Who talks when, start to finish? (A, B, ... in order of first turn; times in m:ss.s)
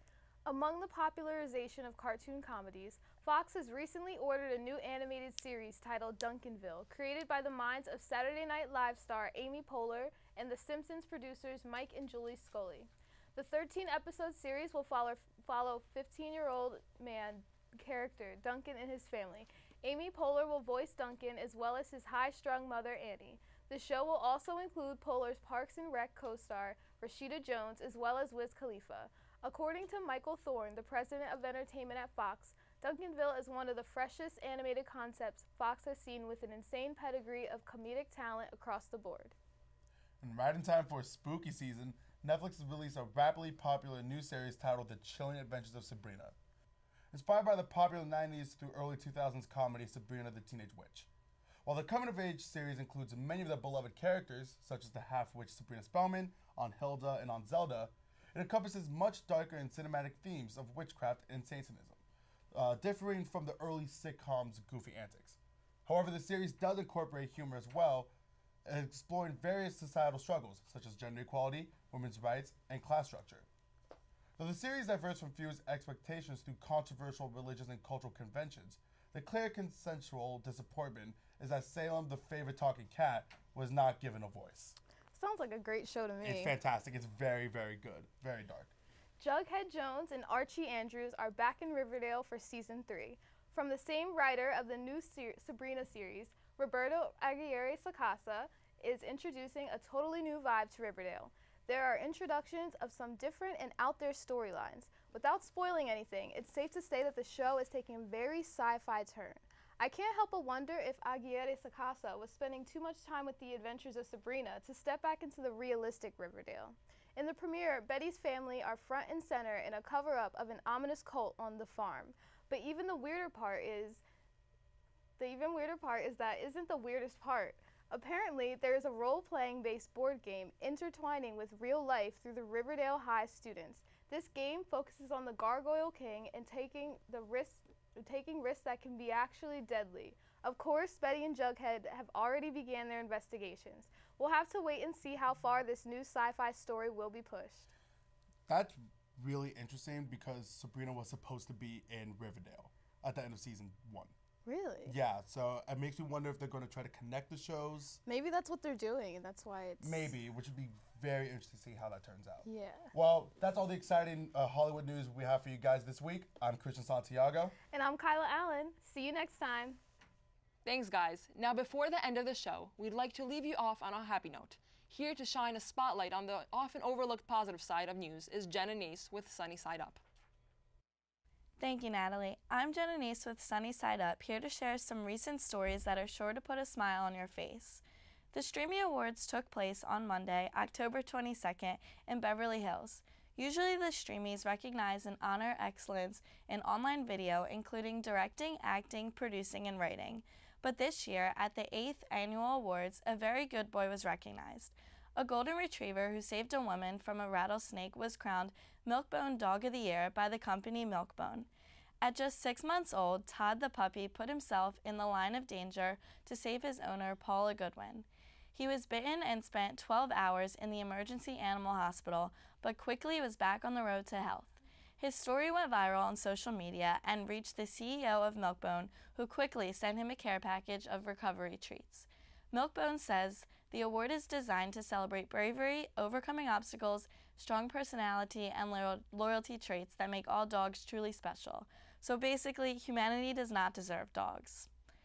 0:00.5-0:39.4 A
0:40.2-0:46.4 B
0:47.1-0:51.1 B
0:51.6-1:08.1 B
1:08.6-1:13.5 B
1:14.4-1:24.8 B
1:25.1-1:26.6 A
1:26.2-1:28.7 B
1:29.2-2:04.0 A
2:05.2-2:27.7 A
2:28.5-2:34.1 B
2:34.4-2:34.9 A
2:34.8-2:38.0 B
2:38.1-2:40.1 A
2:39.8-2:47.5 B
2:42.4-2:42.9 A
2:47.7-2:49.8 A
2:50.6-3:00.0 C
3:01.6-3:31.5 D
3:32.0-4:04.7 D